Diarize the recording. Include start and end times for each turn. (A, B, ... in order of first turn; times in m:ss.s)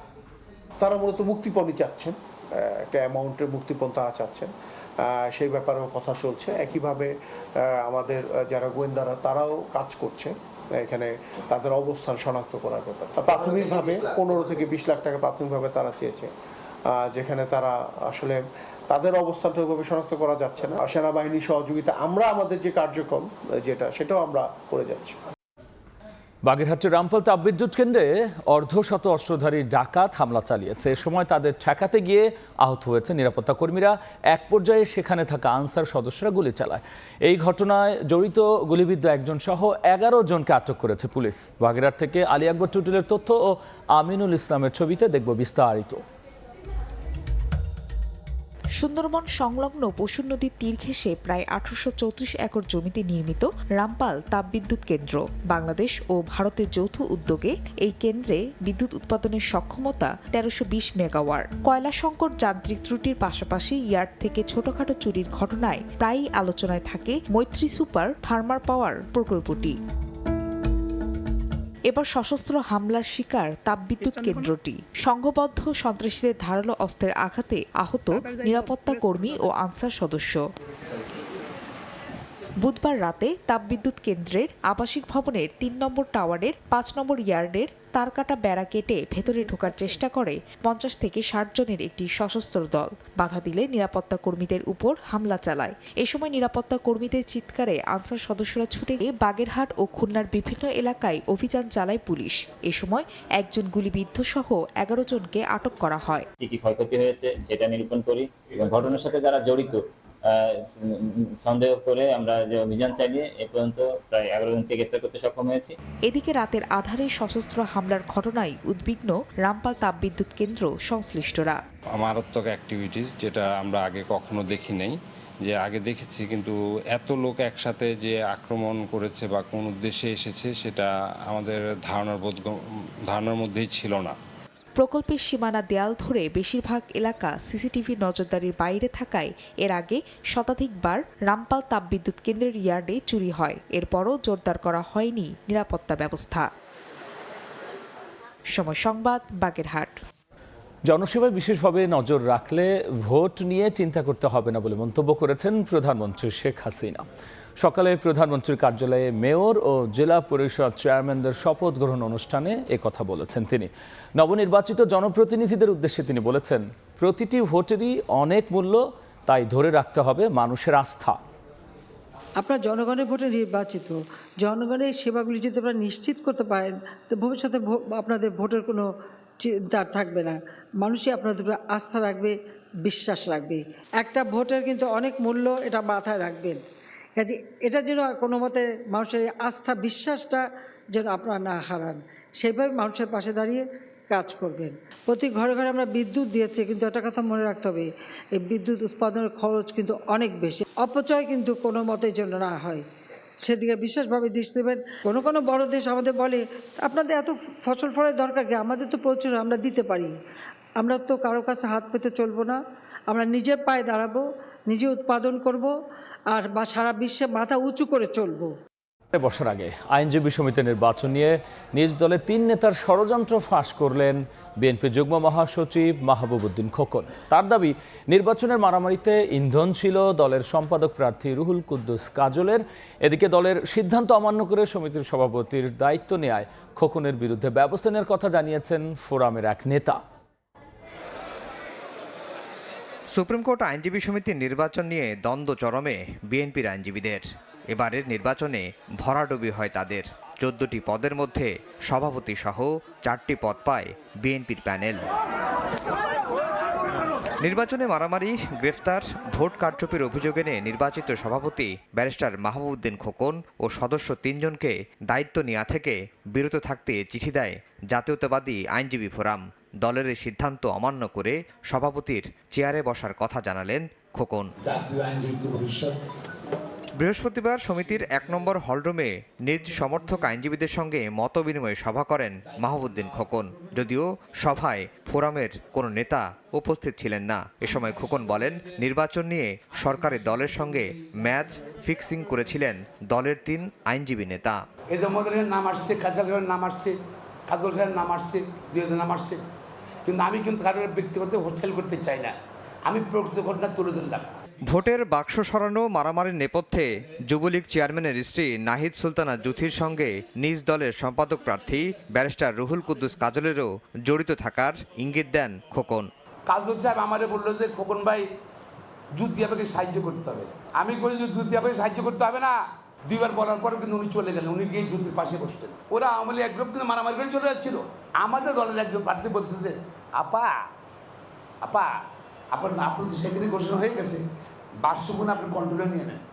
0:00.8-0:04.5 A
0:05.0-0:07.1 A
0:07.8-0:16.3 A
0:16.9-0:25.2 A
0:26.5-0:46.0 B
0:48.8-1:09.8 C
1:11.9-1:20.4 C
1:22.6-1:46.3 C
1:46.4-1:50.7 D
1:51.4-1:55.7 D
1:56.1-2:01.6 C
2:01.9-2:12.6 E
2:13.1-2:14.2 E
2:14.8-2:26.5 C
2:28.6-2:30.0 C
2:30.9-2:37.0 B
2:37.6-2:51.2 B
2:52.4-2:58.9 F
2:59.4-3:02.3 F
3:02.9-3:06.6 F
3:07.2-3:10.4 F
3:10.9-3:22.8 F
3:23.4-3:30.1 F
3:30.8-3:32.6 F
3:33.1-3:35.7 F
3:36.3-3:38.5 F
3:39.1-4:00.0 B
4:03.1-4:15.1 G
4:17.4-4:34.5 G
4:34.7-4:35.9 H
4:37.0-4:54.6 G
4:54.9-4:56.9 H
4:57.5-4:59.4 H
5:00.1-5:02.3 H
5:02.9-5:04.2 H
5:04.7-5:16.1 G
5:16.5-5:18.2 H
5:19.2-5:22.6 H
5:23.1-5:30.5 H
5:31.6-5:31.9 H
5:32.5-5:34.2 H
5:34.8-5:36.2 H